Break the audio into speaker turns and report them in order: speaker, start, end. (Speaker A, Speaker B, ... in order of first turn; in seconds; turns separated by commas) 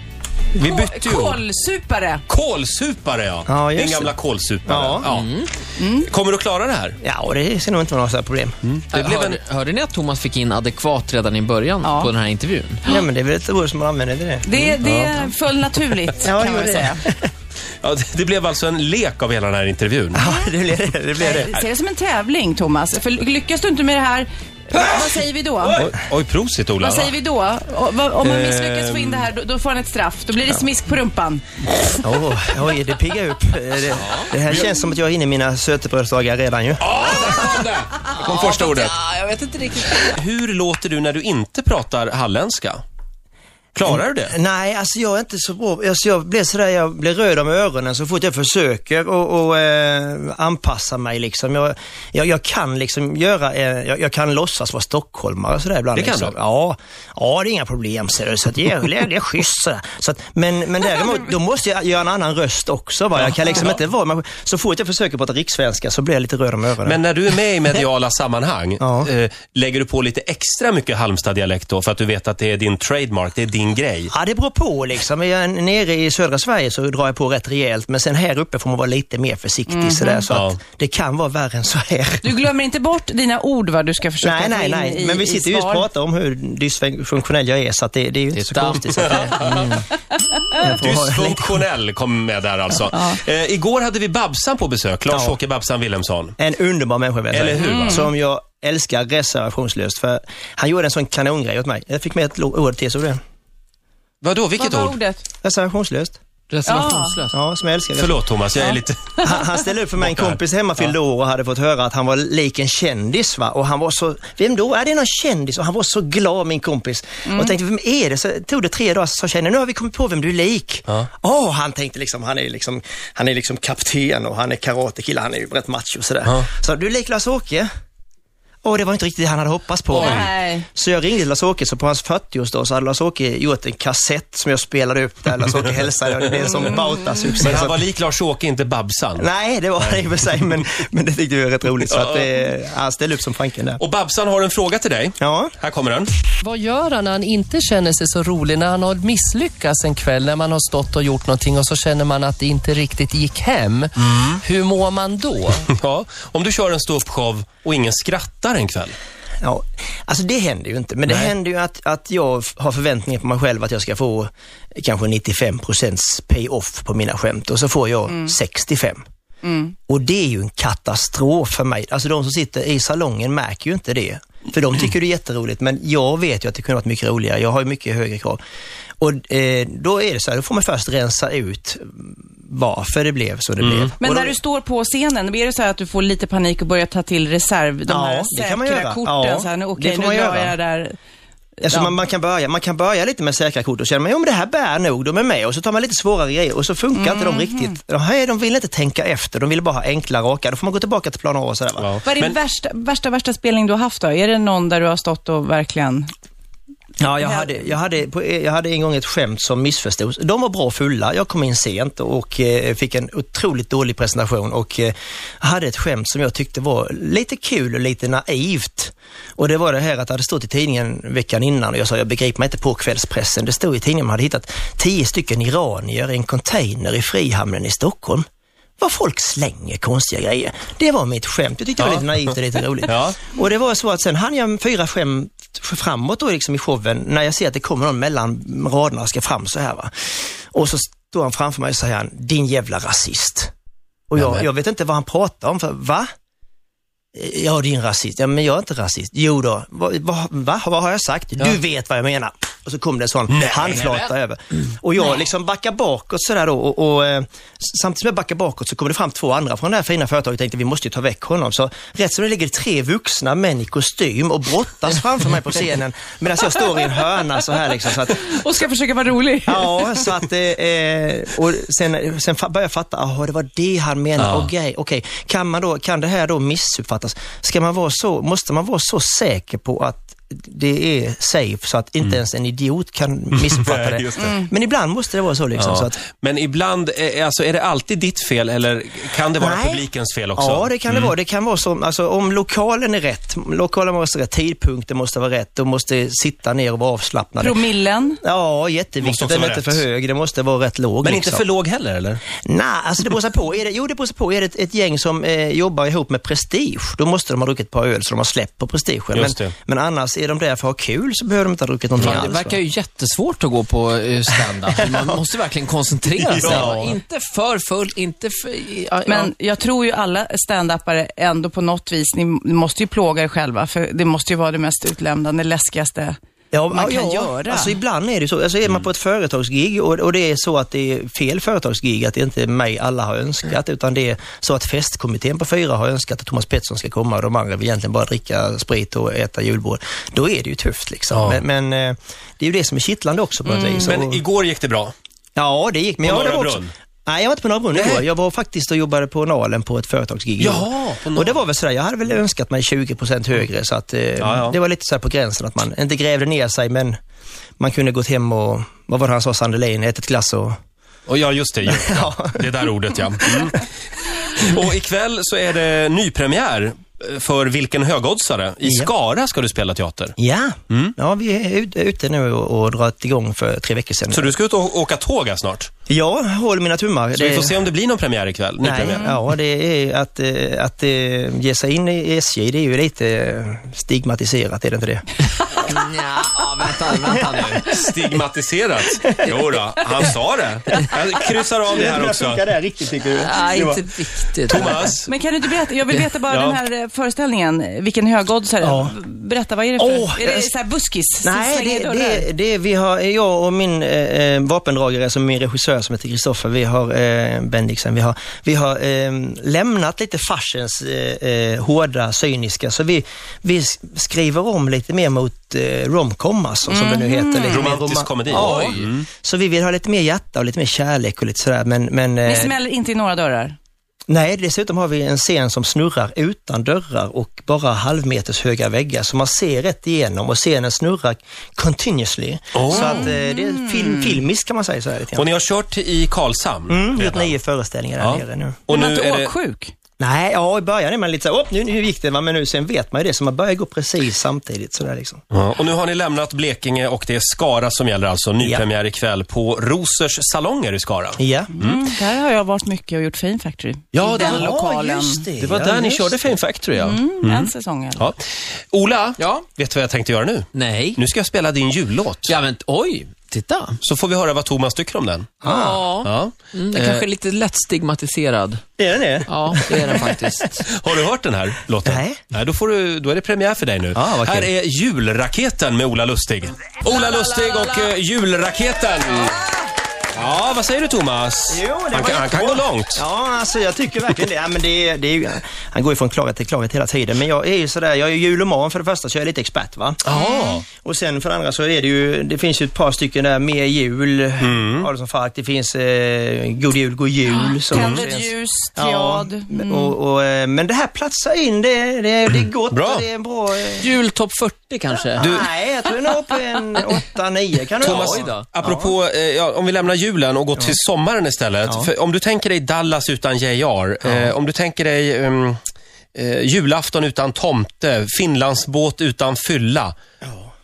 Speaker A: 0.5-1.4, Speaker B: 0.6-2.2, Speaker A: 2.3-5.4, Speaker C: 3.5-5.0, Speaker D: 5.0-5.5, Speaker B: 5.8-6.1, Speaker A: 6.0-7.0, Speaker C: 7.0-8.6, Speaker A: 8.6-9.4, Speaker D: 8.9-12.8, Speaker B: 11.8-12.1, Speaker C: 12.8-14.7, Speaker B: 14.4-17.0, Speaker A: 14.8-15.2, Speaker C: 16.2-17.3, Speaker A: 17.8-20.2, Speaker C: 20.1-21.5, Speaker B: 20.2-20.5, Speaker B: 21.2-25.9, Speaker A: 24.8-27.1, Speaker B: 26.8-31.4, Speaker A: 28.2-29.3, Speaker C: 32.0-36.8, Speaker A: 36.8-39.0, Speaker D: 38.2-40.1, Speaker A: 39.9-42.8, Speaker A: 43.7-44.3, Speaker C: 43.9-67.0, Speaker A: 55.9-56.3, Speaker A: 63.2-63.8, Speaker A: 66.8-74.1, Speaker C: 68.8-69.1, Speaker C: 74.1-82.4, Speaker B: 79.7-80.2, Speaker A: 80.3-80.6, Speaker B: 82.2-85.9, Speaker C: 84.2-89.8, Speaker D: 88.3-89.2, Speaker A: 89.0-89.7, Speaker C: 90.6-91.6, Speaker A: 90.6-96.4, Speaker B: 92.9-93.2, Speaker C: 95.1-95.4, Speaker C: 96.4-103.2, Speaker A: 97.3-98.0, Speaker B: 97.6-98.1, Speaker A: 104.2-105.0, Speaker B: 104.6-105.2, Speaker C: 105.4-106.2, Speaker D: 106.5-107.3, Speaker B: 106.7-107.2, Speaker C: 107.3-108.3, Speaker A: 108.0-109.3, Speaker C: 109.2-127.7, Speaker A: 110.0-110.4, Speaker B: 117.2-117.5, Speaker C: 128.6-137.8, Speaker B: 129.9-130.7, Speaker A: 130.0-130.3, Speaker A: 137.4-139.2, Speaker C: 139.2-143.8, Speaker A: 141.9-142.3, Speaker A: 143.8-146.1, Speaker C: 145.2-145.5, Speaker E: 146.4-155.6, Speaker A: 154.0-154.4, Speaker A: 155.7-158.9, Speaker C: 159.4-169.0, Speaker A: 161.1-161.3, Speaker B: 169.4-169.7, Speaker C: 169.9-178.4, Speaker C: 179.0-184.3, Speaker A: 183.6-183.9, Speaker B: 184.0-191.0, Speaker C: 187.9-190.6, Speaker C: 191.6-201.9, Speaker B: 191.7-192.0, Speaker B: 196.9-197.8, Speaker A: 201.8-202.3, Speaker B: 202.0-206.1, Speaker C: 207.0-228.2, Speaker B: 207.2-207.6, Speaker C: 228.8-243.5, Speaker A: 231.8-232.1, Speaker A: 232.8-233.2, Speaker C: 244.1-246.1, Speaker A: 244.2-244.4, Speaker C: 247.1-268.4, Speaker A: 253.3-253.9, Speaker B: 268.1-270.1, Speaker C: 269.5-286.0, Speaker A: 274.2-274.5, Speaker A: 283.4-284.4, Speaker A: 285.6-291.1, Speaker C: 289.4-297.6, Speaker B: 297.4-298.2, Speaker C: 298.2-301.4, Speaker A: 299.0-299.8, Speaker A: 301.0-302.2, Speaker C: 302.4-312.6, Speaker A: 309.1-309.5, Speaker D: 312.0-319.3, Speaker C: 314.8-315.2, Speaker A: 316.1-316.8, Speaker C: 316.3-316.9, Speaker B: 319.1-326.1, Speaker C: 326.5-344.2, Speaker B: 326.7-327.7, Speaker A: 341.1-341.4, Speaker A: 343.8-344.9, Speaker C: 345.4-356.9, Speaker A: 346.0-346.7, Speaker A: 347.7-348.1, Speaker A: 350.4-351.4, Speaker A: 354.2-354.6, Speaker C: 357.6-360.6, Speaker A: 361.1-363.7, Speaker C: 361.7-362.4, Speaker A: 364.3-370.1, Speaker C: 368.6-368.9, Speaker C: 370.2-374.3, Speaker A: 374.1-375.7, Speaker C: 375.9-377.6, Speaker A: 377.1-379.1, Speaker C: 378.6-385.0, Speaker B: 378.9-379.2, Speaker D: 385.6-387.6, Speaker C: 387.0-387.3, Speaker A: 387.4-392.4, Speaker C: 389.0-389.4, Speaker C: 391.7-393.9, Speaker D: 393.2-394.9, Speaker A: 394.5-395.1, Speaker B: 395.1-402.3, Speaker A: 396.0-396.6, Speaker C: 398.6-398.9, Speaker C: 399.8-400.5, Speaker C: 401.2-422.6, Speaker B: 416.7-417.7, Speaker A: 417.4-419.1, Speaker D: 418.3-418.8, Speaker B: 422.2-423.6, Speaker C: 424.1-435.3, Speaker A: 432.5-433.1, Speaker B: 432.7-434.1, Speaker A: 435.1-437.3, Speaker C: 436.7-438.6, Speaker A: 438.0-439.3, Speaker B: 438.7-439.7, Speaker C: 440.0-445.2, Speaker A: 445.3-451.8, Speaker C: 451.2-451.5, Speaker B: 451.5-455.3, Speaker A: 453.9-454.5, Speaker C: 454.0-456.1, Speaker A: 455.4-458.1, Speaker D: 455.8-456.3, Speaker B: 456.8-458.1, Speaker A: 458.7-462.4, Speaker D: 459.2-459.4, Speaker D: 460.5-461.0, Speaker D: 462.2-463.8, Speaker A: 463.8-465.5, Speaker C: 465.4-465.9, Speaker D: 465.4-468.6, Speaker A: 466.0-467.1, Speaker C: 468.8-470.2, Speaker D: 469.3-470.6, Speaker A: 470.6-479.4, Speaker C: 471.8-472.2, Speaker C: 473.9-474.5, Speaker A: 480.1-483.0, Speaker C: 481.5-490.1, Speaker A: 490.0-490.6, Speaker B: 490.1-490.6, Speaker C: 490.7-503.9, Speaker A: 494.4-494.9, Speaker B: 497.3-499.9, Speaker A: 497.7-498.1, Speaker A: 502.7-503.1, Speaker D: 503.8-505.3, Speaker C: 505.2-508.9, Speaker A: 505.2-505.4, Speaker A: 507.8-515.6, Speaker D: 507.8-508.4, Speaker C: 511.6-511.9, Speaker C: 514.0-514.3, Speaker A: 516.1-520.0, Speaker C: 520.2-520.5